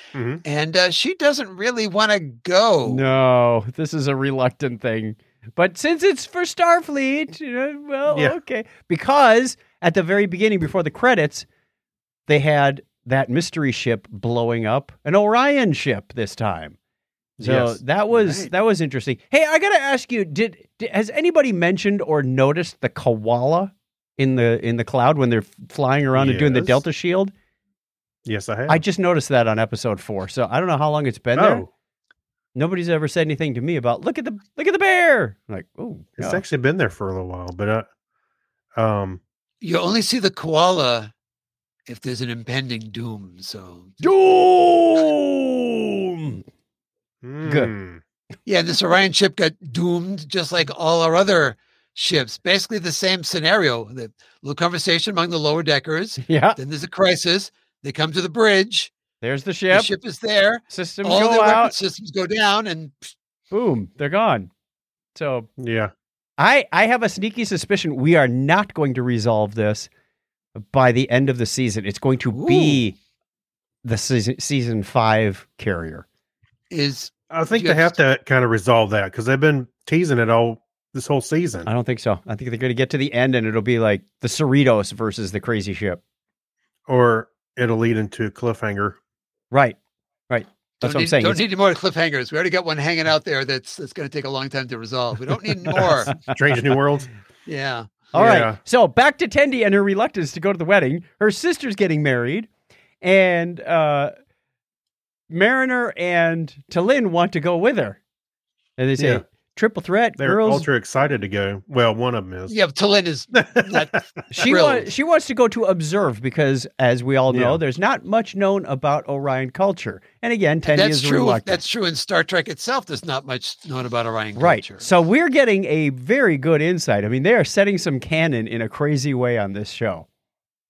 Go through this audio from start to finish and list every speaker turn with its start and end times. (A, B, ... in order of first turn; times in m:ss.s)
0:00.1-0:00.4 A
0:00.4-0:03.0 B
0:02.9-0:11.4 C
0:08.1-0:08.4 A
0:12.3-0:16.8 C
0:17.4-0:17.8 A
0:17.4-0:27.3 C
0:18.1-0:18.5 B
0:26.2-0:26.8 A
0:28.2-0:28.8 A
0:28.7-0:31.6 C
0:31.3-0:31.7 A
0:32.5-0:36.4 C
0:36.2-0:37.9 A
0:38.8-0:39.2 A
0:39.6-0:41.1 B
0:41.9-0:44.0 B
0:44.0-0:46.4 C
0:47.2-0:48.0 A
0:47.4-0:47.7 C
0:48.4-0:58.9 B
0:56.2-0:56.6 C
0:59.2-0:59.9 C
0:59.7-1:03.1 B
1:00.7-1:01.7 C
1:03.5-1:04.5 C
1:05.1-1:05.5 C
1:05.6-1:05.9 A
1:06.4-1:09.9 C
1:10.5-1:13.0 C
1:12.3-1:12.8 B
1:13.8-1:16.0 C
1:16.7-1:18.0 B
1:17.3-1:21.7 A
1:21.6-1:26.0 C
1:26.9-1:29.0 A
1:29.5-1:29.8 C
1:30.3-1:31.4 C
1:30.8-1:36.1 B
1:36.2-1:37.1 A
1:37.4-1:38.0 B
1:38.1-1:42.5 C
1:38.1-1:38.6 A
1:43.0-1:44.1 C
1:45.3-1:48.0 C
1:48.8-1:50.7 C
1:49.0-1:49.2 A
1:50.2-1:52.5 A
1:52.5-1:54.9 B
1:53.3-1:54.0 A
1:54.3-2:01.6 C
1:57.3-1:57.6 A
2:00.6-2:04.9 B
2:04.4-2:10.0 C